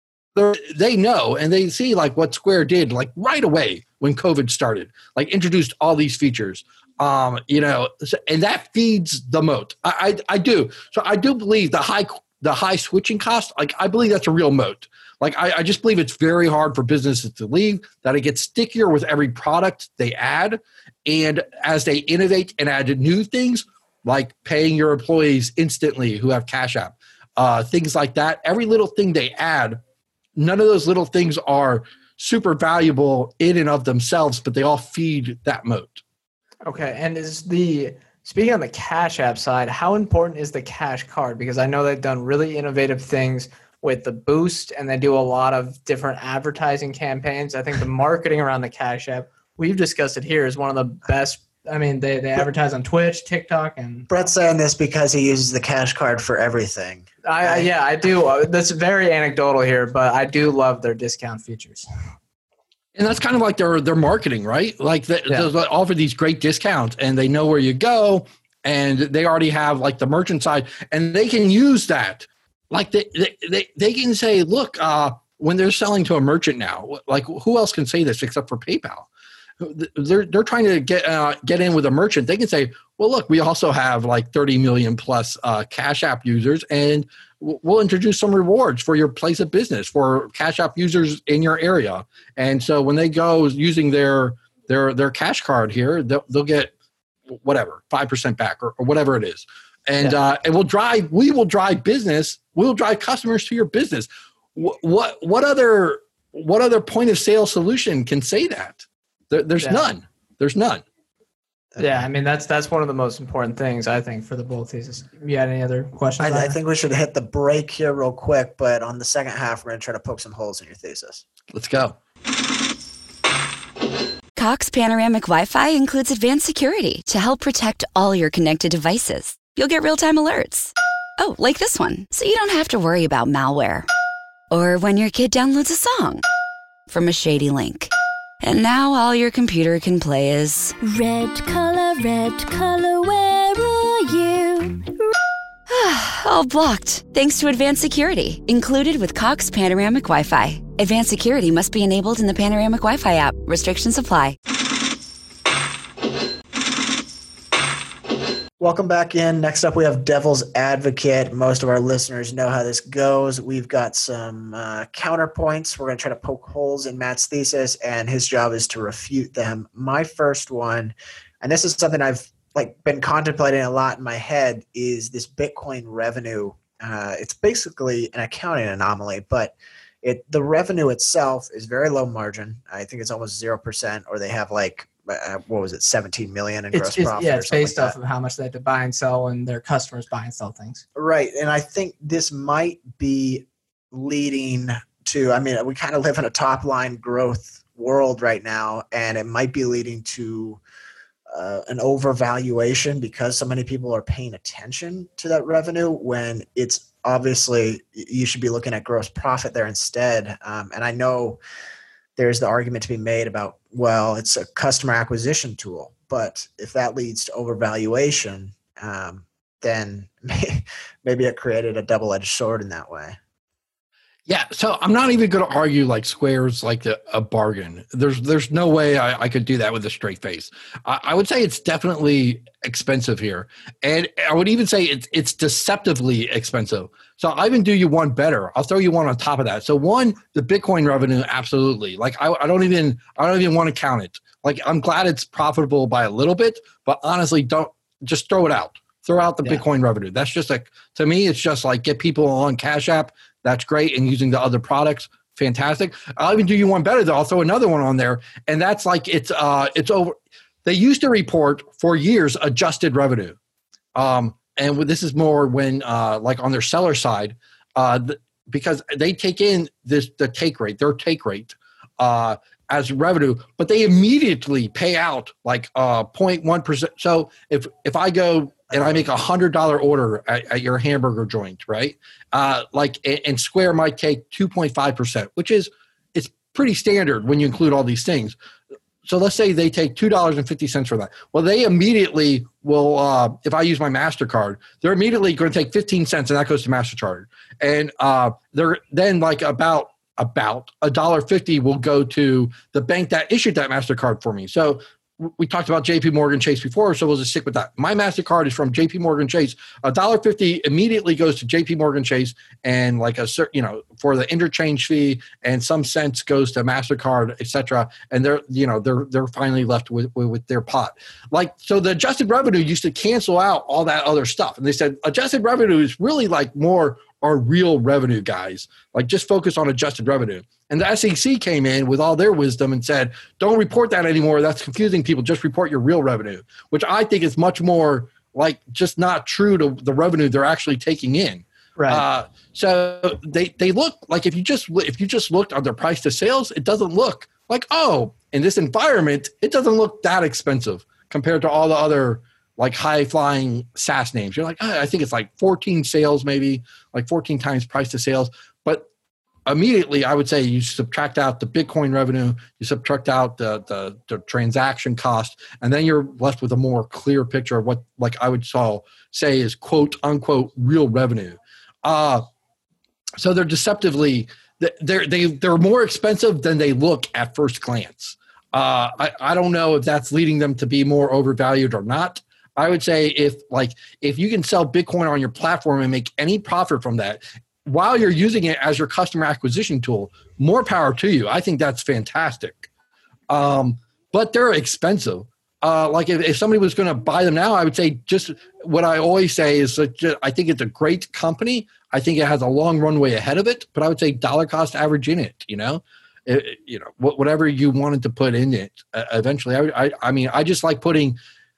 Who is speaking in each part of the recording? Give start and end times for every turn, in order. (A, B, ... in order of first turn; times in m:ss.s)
0:00.3-0:29.8 A
0:30.4-0:36.0 A
0:36.6-0:54.1 B
0:54.1-0:57.7 C
0:57.2-1:01.8 B
1:02.9-1:19.1 A
1:19.6-1:36.7 A
1:37.3-1:50.8 A
1:49.6-1:49.9 B
1:51.7-1:52.0 C
1:51.8-1:56.6 B
1:56.2-2:01.2 C
2:01.5-2:02.0 A
2:04.4-2:13.9 D
2:14.5-2:16.2 D
2:16.9-2:20.8 D
2:20.8-2:24.8 E
2:25.7-2:34.4 D
2:38.6-3:07.9 C
3:06.7-3:10.8 B
3:11.0-3:20.6 C
3:21.3-3:31.4 C
3:32.2-3:43.2 C
3:44.3-4:23.4 A
4:23.9-4:48.4 A
4:49.0-5:58.9 A
5:41.8-5:42.0 B
5:59.5-6:12.2 A
6:13.2-6:32.7 A
6:33.3-6:51.2 A